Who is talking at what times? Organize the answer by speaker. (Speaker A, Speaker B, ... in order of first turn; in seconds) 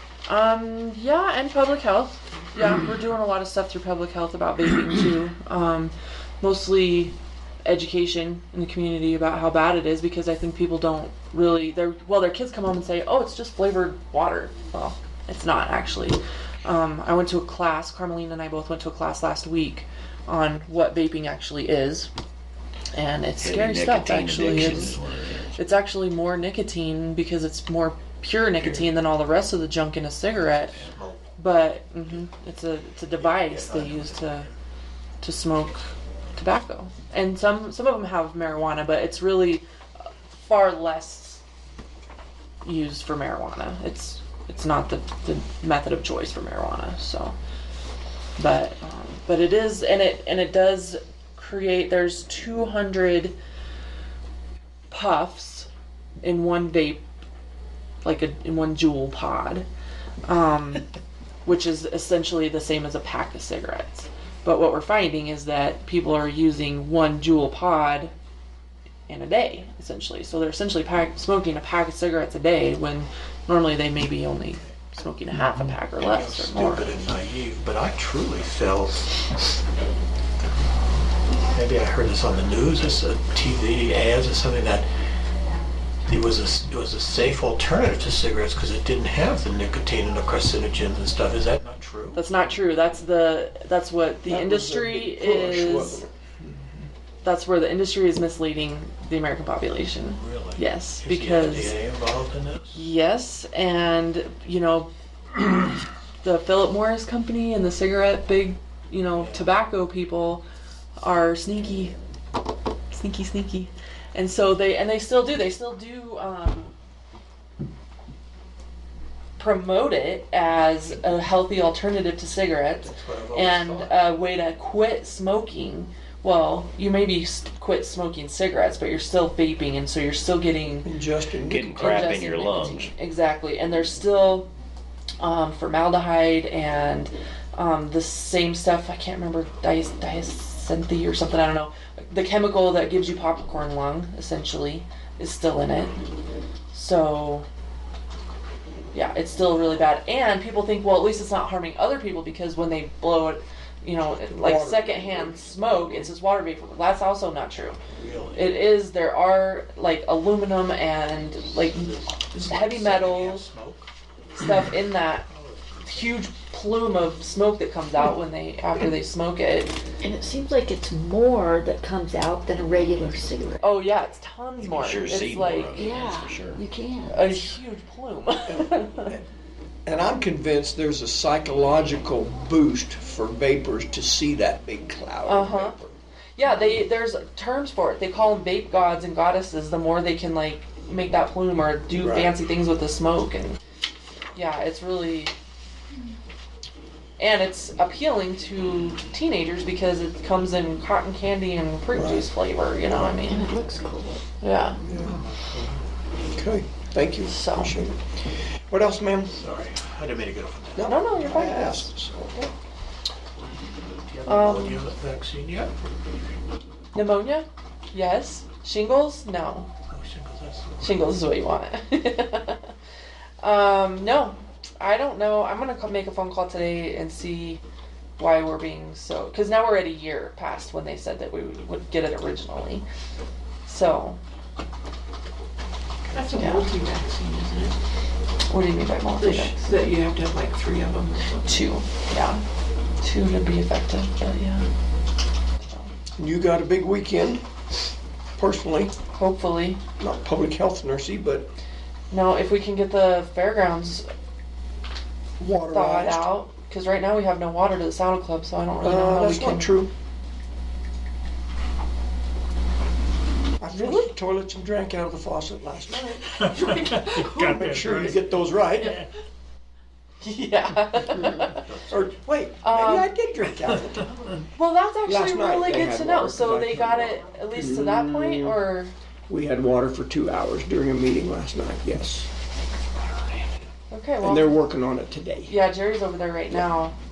Speaker A: 0.2-22.1, 22.9-25.0, 25.6-30.8, 31.4-34.5, 35.2-39.6, 40.3-41.4, 42.6-47.4, 48.4-53.3, 54.9-55.7, 56.2-57.0, 58.0-59.7, 60.2-60.9, 61.4-68.1, 69.1-77.0, 92.2-96.0, 97.2-101.8, 102.7-104.9, 106.2-110.4, 111.0-111.9, 112.9-116.7, 119.4-130.9, 131.7-134.5, 135.2-146.0, 146.7-147.4, 148.9-157.8, 158.3-163.4, 164.4-165.2, 165.8-169.8, 173.6-175.9, 177.1-179.1, 185.2-185.8, 186.3-193.6, 194.3-195.3, 197.2-203.5, 204.4-204.8, 207.2-207.9, 210.8-212.5, 214.2-214.8, 216.9-219.7, 220.8-222.7, 223.4-227.6, 228.2-232.8, 233.7-234.2, 236.3-236.7, 238.5-239.5, 241.4-242.4, 243.0-244.7, 245.6-245.9, 249.1-249.8, 252.1-254.1, 255.7-259.7, 263.8-264.1, 270.2-271.6, 272.6-273.1, 274.6-278.9, 283.9-284.6, 285.4-286.9
Speaker B: 23.4-25.4, 131.5-132.9, 174.6-176.6
Speaker C: 24.3-24.9, 94.2-96.1, 130.8-132.0, 154.3-156.1, 178.4-179.2, 179.8-185.9, 191.9-192.3, 201.9-202.3, 204.9-205.1, 206.3-208.0, 208.7-209.3, 210.8-212.4, 246.2-247.4, 248.4-248.9, 250.0-251.5, 255.4-256.3, 258.8-259.9, 263.6-266.4, 266.9-269.0, 271.9-274.1, 275.0-278.6, 279.3-282.3, 284.2-285.5
Speaker D: 30.5-31.2, 33.2-34.5, 75.9-79.2, 81.5-84.9, 86.1-92.2, 100.0-102.8, 109.1-109.5, 122.8-124.1, 157.9-158.6, 161.3-163.9, 165.2-166.0, 204.9-205.8, 209.3-211.0, 214.1-215.7, 219.9-221.1, 266.3-269.1, 271.6-272.0
Speaker E: 170.1-173.5, 175.8-177.1, 203.7-204.0
Speaker F: 203.2-203.7, 236.1-237.7, 239.1-241.5